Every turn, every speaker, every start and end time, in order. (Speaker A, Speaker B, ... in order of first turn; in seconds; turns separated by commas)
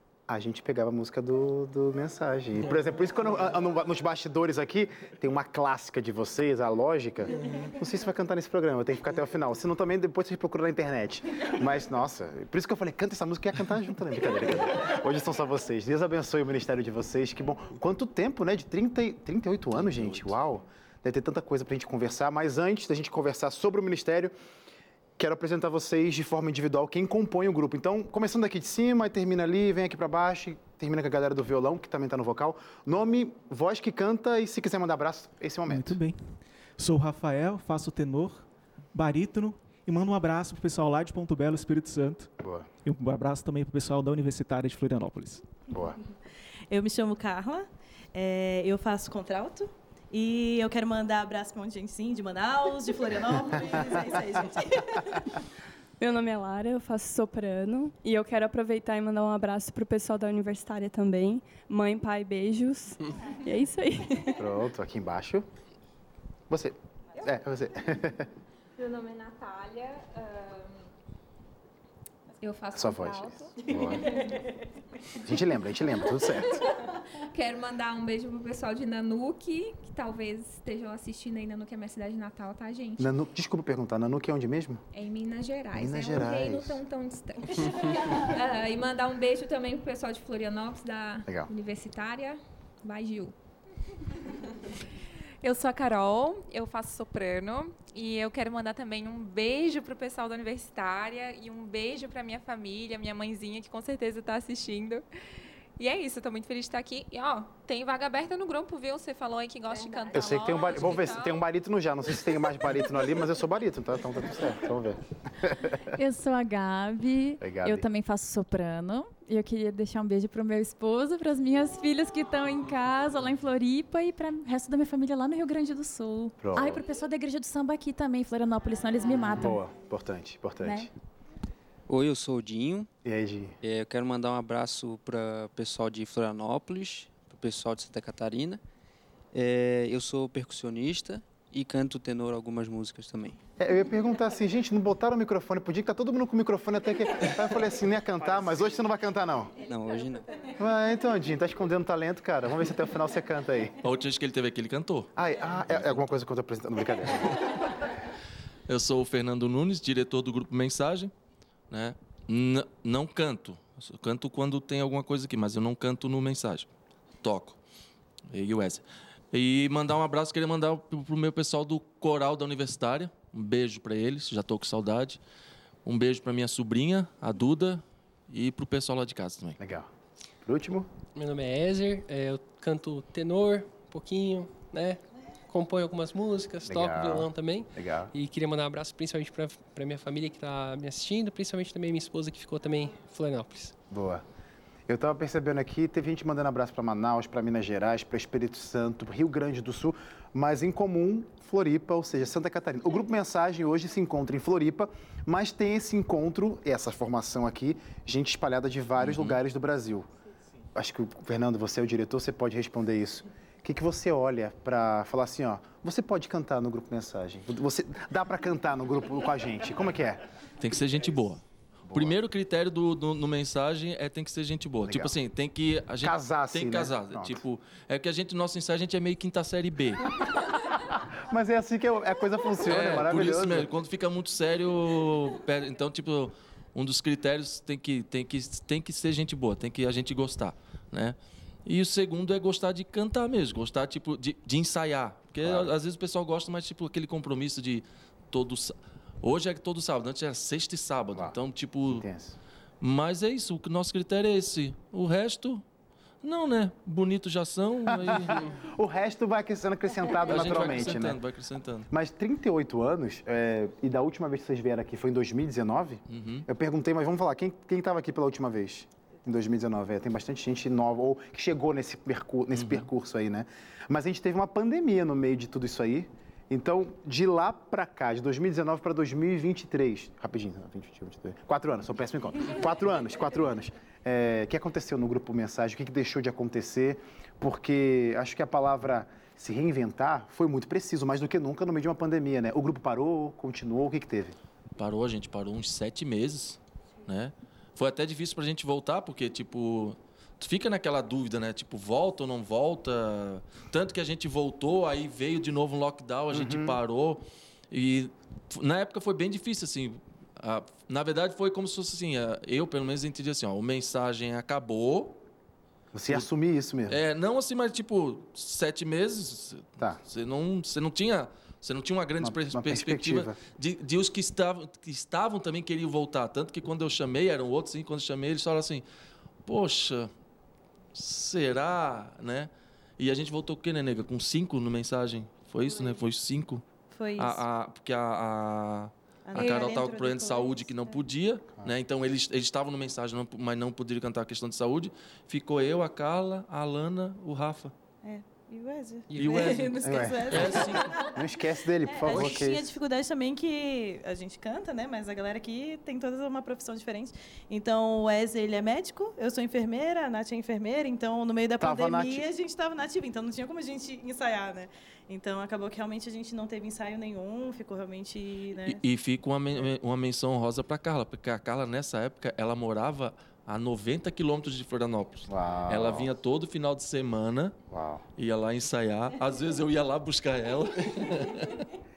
Speaker A: 0.3-24.3, Speaker A: 25.2-36.0, Speaker B: 35.7-38.4, Speaker B: 39.0-42.3, Speaker A: 42.4-42.7, Speaker B: 42.9-45.4, Speaker A: 45.7-46.0, Speaker C: 46.7-55.3, Speaker D: 56.0-64.4, Speaker A: 64.4-65.5, Speaker A: 66.5-68.3, Speaker E: 68.8-70.8, Speaker E: 72.4-74.4, Speaker A: 72.7-74.1, Speaker A: 75.2-76.6, Speaker E: 76.5-83.1, Speaker A: 83.0-84.8, Speaker E: 84.9-93.3, Speaker A: 85.8-86.8, Speaker F: 95.4-105.0, Speaker F: 105.8-111.4, Speaker A: 110.1-115.9, Speaker G: 116.0-129.6, Speaker A: 117.4-117.8, Speaker A: 126.4-126.8, Speaker A: 129.4-130.9, Speaker G: 130.6-130.9, Speaker H: 131.9-132.9, Speaker A: 133.0-133.6, Speaker H: 133.6-138.6, Speaker H: 139.3-143.4, Speaker A: 143.6-149.6, Speaker H: 149.6-150.2, Speaker A: 150.6-153.8, Speaker I: 153.8-155.1, Speaker A: 155.2-157.6, Speaker I: 158.7-161.1, Speaker I: 161.7-166.7, Speaker I: 167.2-167.6, Speaker I: 168.3-175.2, Speaker I: 175.8-179.6, Speaker A: 179.6-179.9, Speaker A: 180.4-180.9, Speaker J: 181.2-193.8, Speaker A: 186.7-188.1, Speaker A: 193.9-194.2, Speaker A: 194.9-210.1, Speaker I: 209.0-209.4, Speaker A: 210.8-220.2, Speaker I: 220.6-230.2, Speaker A: 221.9-222.2, Speaker A: 224.8-225.2, Speaker A: 226.0-227.4, Speaker A: 231.2-233.7, Speaker I: 232.7-252.1, Speaker A: 245.4-245.7, Speaker A: 251.9-252.4, Speaker I: 252.8-255.6, Speaker I: 256.2-258.6, Speaker A: 257.9-261.2, Speaker I: 260.2-261.9, Speaker A: 261.9-294.4, Speaker I: 266.1-266.5, Speaker I: 272.5-272.9, Speaker I: 294.8-315.2, Speaker A: 306.3-306.8, Speaker A: 315.9-317.0, Speaker I: 316.9-328.8, Speaker A: 322.2-323.4, Speaker I: 329.5-330.1, Speaker I: 330.9-336.6, Speaker C: 336.9-337.4, Speaker I: 337.2-347.7, Speaker C: 339.3-341.0, Speaker C: 348.0-351.3, Speaker J: 349.1-349.8, Speaker I: 349.2-350.9, Speaker A: 349.8-352.6, Speaker C: 351.9-368.8, Speaker I: 352.1-352.3, Speaker A: 361.6-362.2, Speaker I: 368.6-377.6, Speaker A: 375.3-376.1, Speaker A: 377.7-378.0, Speaker I: 378.2-381.6